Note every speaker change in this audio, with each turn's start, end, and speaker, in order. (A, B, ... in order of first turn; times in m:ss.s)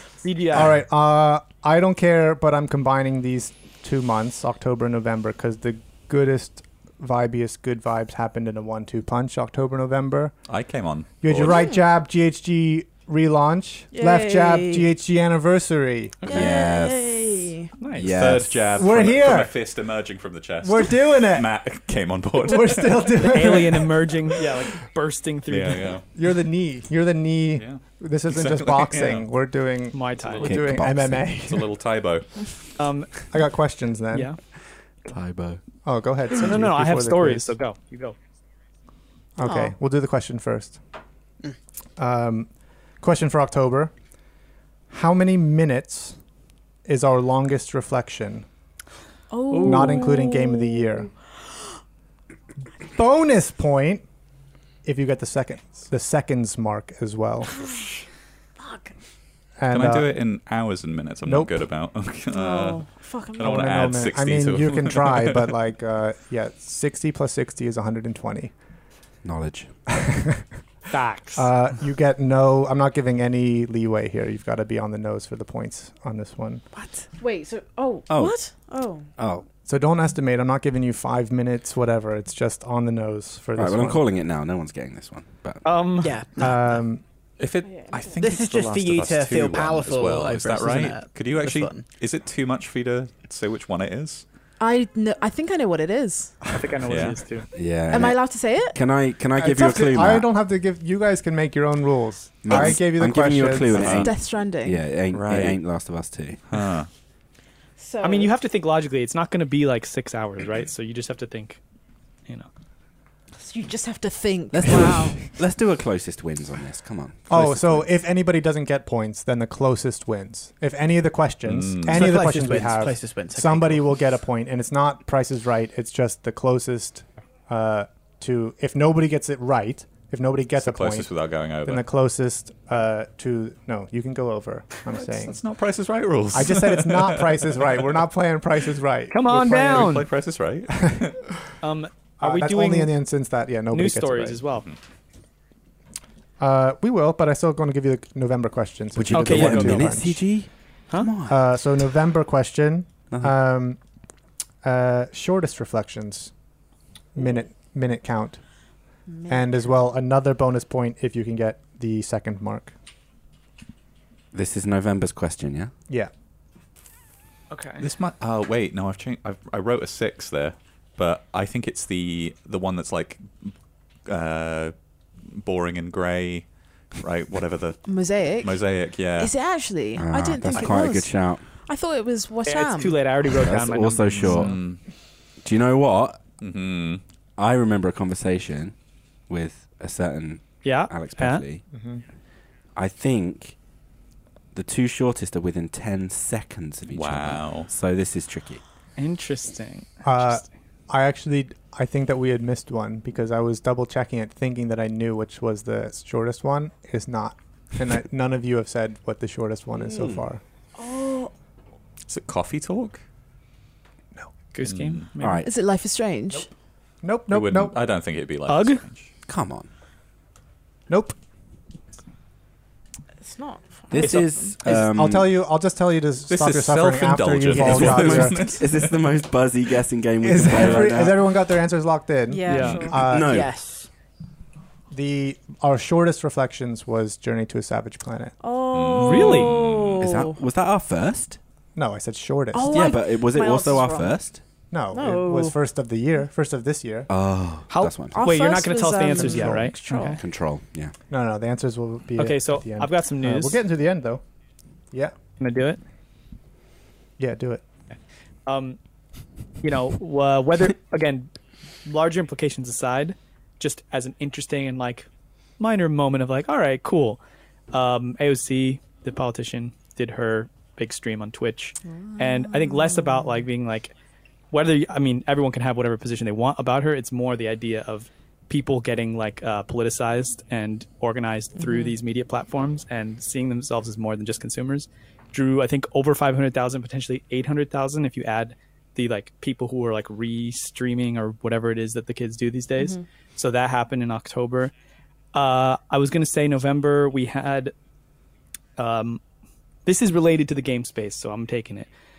0:00.2-0:00.8 A
0:00.5-0:10.3 B
0:10.5-0:11.6 C
0:11.2-0:16.3 B
0:11.5-0:11.8 D
0:13.9-0:14.9 D
0:16.2-0:17.7 D
0:16.3-0:18.7 E
0:17.8-0:18.2 A
0:18.0-0:23.2 C
0:18.8-0:19.5 B
0:20.6-0:21.5 B
0:22.4-0:24.0 B
0:23.2-0:26.0 A
0:25.5-0:26.0 C
0:26.1-0:31.7 B
0:27.6-0:29.3 C
0:29.9-0:30.6 A
0:30.2-0:32.5 C
0:30.4-0:31.2 E
0:32.8-0:33.3 A
0:33.3-0:34.3 B
0:34.1-0:34.4 A
0:35.0-0:35.6 E
0:35.8-0:37.5 B
0:36.4-0:38.2 A
0:39.4-0:40.8 B
0:39.4-0:39.7 D
0:42.0-0:42.5 B
0:43.0-0:43.9 B
0:44.9-0:46.2 B
0:46.9-0:48.5 B
0:49.3-0:51.7 D
0:49.5-0:50.0 A
0:49.6-0:51.1 B
0:52.8-0:54.0 B
0:54.8-0:57.6 B
0:57.5-0:58.0 D
0:58.6-0:58.9 D
0:59.6-1:00.1 B
0:59.7-1:05.5 C
1:01.2-1:01.6 B
1:02.3-1:03.6 D
1:03.4-1:08.5 B
1:09.2-1:09.7 E
1:09.9-1:10.4 B
1:10.9-1:11.5 A
1:11.4-1:16.6 B
1:17.1-1:19.1 D
1:18.1-1:18.4 E
1:19.2-1:19.5 E
1:19.7-1:24.0 B
1:23.6-1:25.6 E
1:25.6-1:26.2 A
1:26.0-1:26.8 F
1:26.4-1:27.0 B
1:27.4-1:34.2 C
1:27.7-1:28.2 D
1:28.2-1:31.8 F
1:34.6-1:36.4 D
1:36.5-1:37.5 A
1:36.9-1:37.2 C
1:37.5-1:40.3 E
1:37.9-1:38.8 D
1:39.4-1:44.0 B
1:42.4-1:46.4 E
1:43.8-1:44.1 C
1:43.9-1:44.8 D
1:45.1-1:45.6 C
1:46.5-1:46.9 C
1:47.8-1:48.3 D
1:48.0-1:51.6 A
1:53.4-1:55.4 D
1:54.5-1:57.9 E
1:57.3-2:11.1 B
2:01.4-2:02.2 C
2:01.9-2:03.9 F
2:10.6-2:11.8 C
2:11.6-2:15.4 B
2:15.0-2:17.7 C
2:16.3-2:20.0 B
2:19.1-2:20.1 A
2:19.6-2:21.2 C
2:21.6-2:23.0 A
2:22.2-2:24.4 B
2:23.7-2:24.7 A
2:26.4-2:30.2 B
2:29.0-2:31.4 E
2:29.1-2:29.9 A
2:31.3-2:33.8 B
2:33.1-2:33.4 E
2:34.6-2:36.3 B
2:37.2-2:38.4 B
2:39.1-2:39.5 D
2:39.3-2:42.7 B
2:44.3-2:45.7 E
2:47.5-2:47.8 A
2:47.8-2:53.5 C
2:54.1-2:54.7 C
2:55.3-2:56.5 C
2:57.0-2:59.3 C
2:57.9-2:58.6 D
2:59.2-3:03.0 D
3:00.0-3:01.4 E
3:02.4-3:04.4 A
3:03.3-3:04.6 E
3:04.1-3:04.8 C
3:05.4-3:06.2 E
3:06.4-3:07.0 C
3:07.4-3:08.8 E
3:09.3-3:11.6 E
3:10.6-3:11.4 A
3:11.7-3:12.0 B
3:12.8-3:13.6 E
3:14.5-3:18.6 E
3:16.9-3:17.7 C
3:19.0-3:20.4 A
3:20.0-3:30.4 B
3:30.8-3:31.3 D
3:32.1-3:33.0 C
3:34.5-3:35.5 A
3:34.6-3:35.1 C
3:35.2-3:35.5 E
3:35.4-3:36.5 D
3:37.0-3:37.8 B
3:37.3-3:39.1 C
3:38.5-3:38.8 A
3:39.3-3:39.7 E
3:40.9-3:41.2 B
3:43.2-3:44.6 D
3:43.9-3:45.3 E
3:44.6-3:48.6 B
3:46.3-3:49.0 C
3:47.6-3:51.2 E
3:50.2-3:53.5 B
3:52.3-3:53.1 D
3:52.5-3:52.8 A
3:52.5-3:52.8 C
3:52.8-3:53.5 E
3:53.3-3:53.9 F
3:54.9-3:58.4 B
3:58.4-4:00.4 D
3:58.7-4:00.1 C
3:59.0-3:59.6 A
3:59.9-4:01.4 E
4:01.8-4:02.9 B
4:02.5-4:04.2 D
4:02.7-4:04.4 E
4:04.7-4:07.1 B
4:04.9-4:05.6 D
4:07.1-4:08.3 E
4:07.7-4:10.2 A
4:08.1-4:10.2 D
4:09.3-4:10.9 E
4:11.1-4:14.2 B
4:12.2-4:13.6 A
4:15.4-4:15.8 A
4:17.2-4:17.6 B
4:18.5-4:18.8 A
4:19.6-4:21.3 A
4:21.8-4:25.1 A
4:25.6-4:27.2 A
4:27.7-4:33.9 A
4:31.9-4:33.3 D
4:34.5-4:54.7 A
4:41.6-4:42.0 D
4:55.3-4:57.7 A
4:58.8-4:59.2 A
4:59.9-5:01.9 A